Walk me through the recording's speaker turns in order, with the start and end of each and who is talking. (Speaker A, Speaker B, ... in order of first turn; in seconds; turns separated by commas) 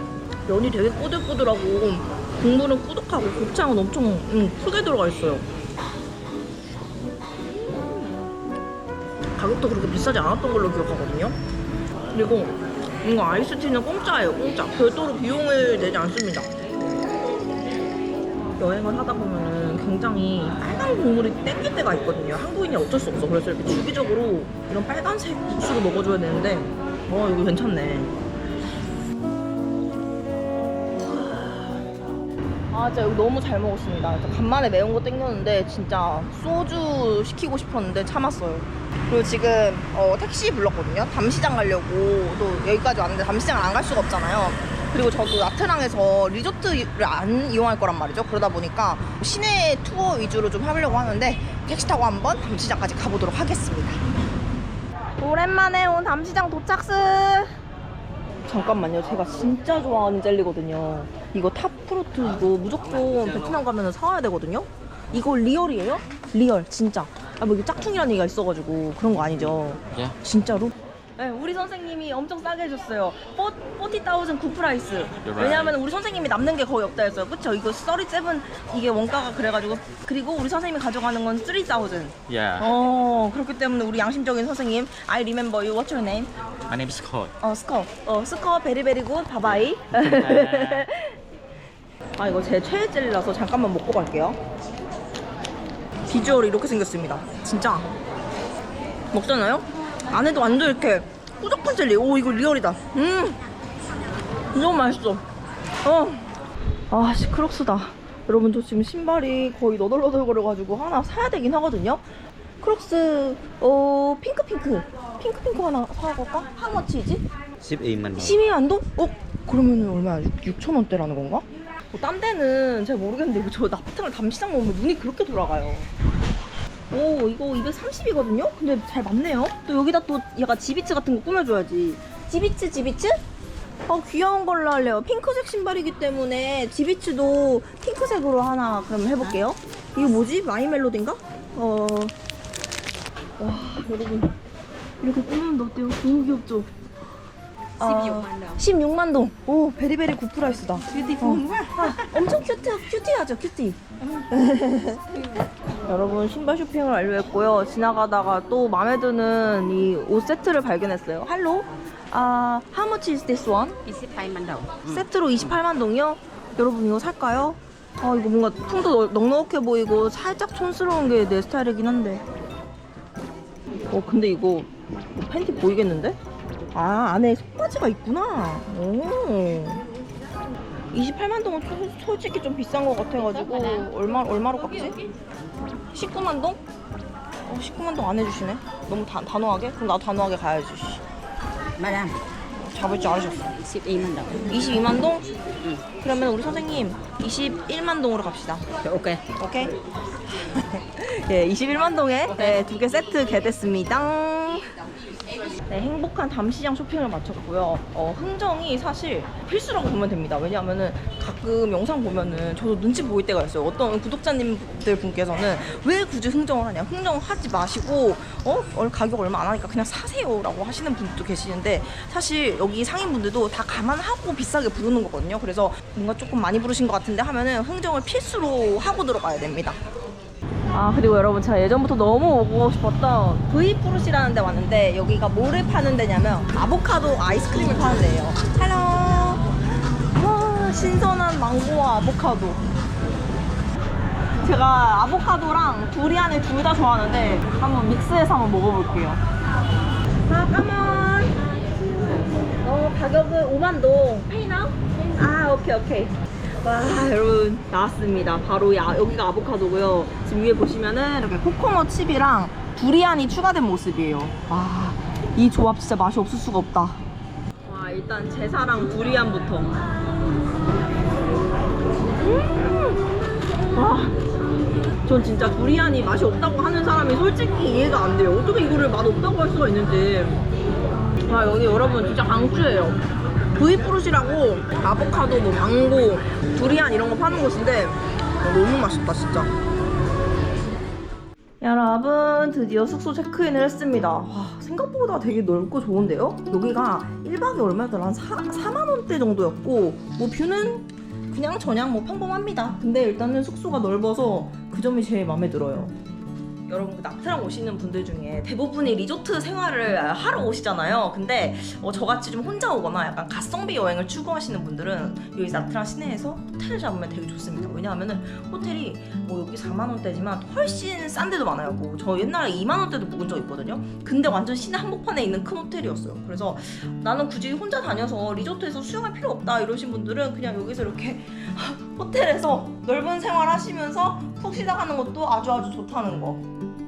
Speaker A: 0.5-5.5, Speaker A: 7.5-8.3, Speaker A: 9.4-11.4, Speaker A: 12.1-16.5, Speaker A: 18.6-28.1, Speaker A: 30.9-31.9, Speaker A: 32.7-54.0, Speaker A: 55.2-57.6, Speaker A: 58.5-86.3, Speaker B: 82.3-82.7, Speaker B: 86.7-87.3, Speaker A: 87.4-91.2, Speaker B: 90.5-90.8, Speaker A: 92.2-94.4, Speaker A: 96.1-97.9, Speaker A: 99.1-103.4, Speaker A: 104.5-105.2, Speaker A: 105.8-106.3, Speaker A: 106.9-112.0, Speaker A: 112.6-117.2, Speaker B: 117.6-118.4, Speaker A: 118.2-125.9, Speaker A: 126.9-133.2, Speaker A: 133.9-142.1, Speaker A: 143.4-144.4, Speaker A: 145.0-146.7, Speaker A: 147.8-163.8, Speaker C: 147.8-148.6, Speaker C: 151.3-151.5, Speaker C: 163.9-165.1, Speaker A: 164.9-172.2, Speaker A: 173.9-176.2, Speaker A: 176.7-179.8, Speaker A: 180.9-185.0, Speaker A: 185.9-186.6, Speaker A: 187.4-191.0, Speaker C: 191.8-192.2, Speaker A: 192.6-193.5, Speaker C: 193.6-194.4, Speaker A: 194.5-195.3, Speaker C: 195.6-195.9, Speaker A: 196.0-198.7, Speaker C: 198.8-199.3, Speaker A: 199.4-199.8, Speaker A: 200.3-204.7, Speaker A: 205.7-229.8, Speaker A: 230.7-239.5, Speaker A: 240.1-242.6, Speaker A: 244.4-249.2, Speaker A: 250.3-251.9, Speaker A: 252.6-267.1, Speaker A: 267.6-269.8, Speaker A: 272.2-273.0, Speaker A: 273.7-274.2, Speaker A: 275.1-280.4, Speaker A: 281.3-283.0, Speaker A: 283.6-289.5, Speaker A: 291.6-305.9, Speaker A: 306.7-336.4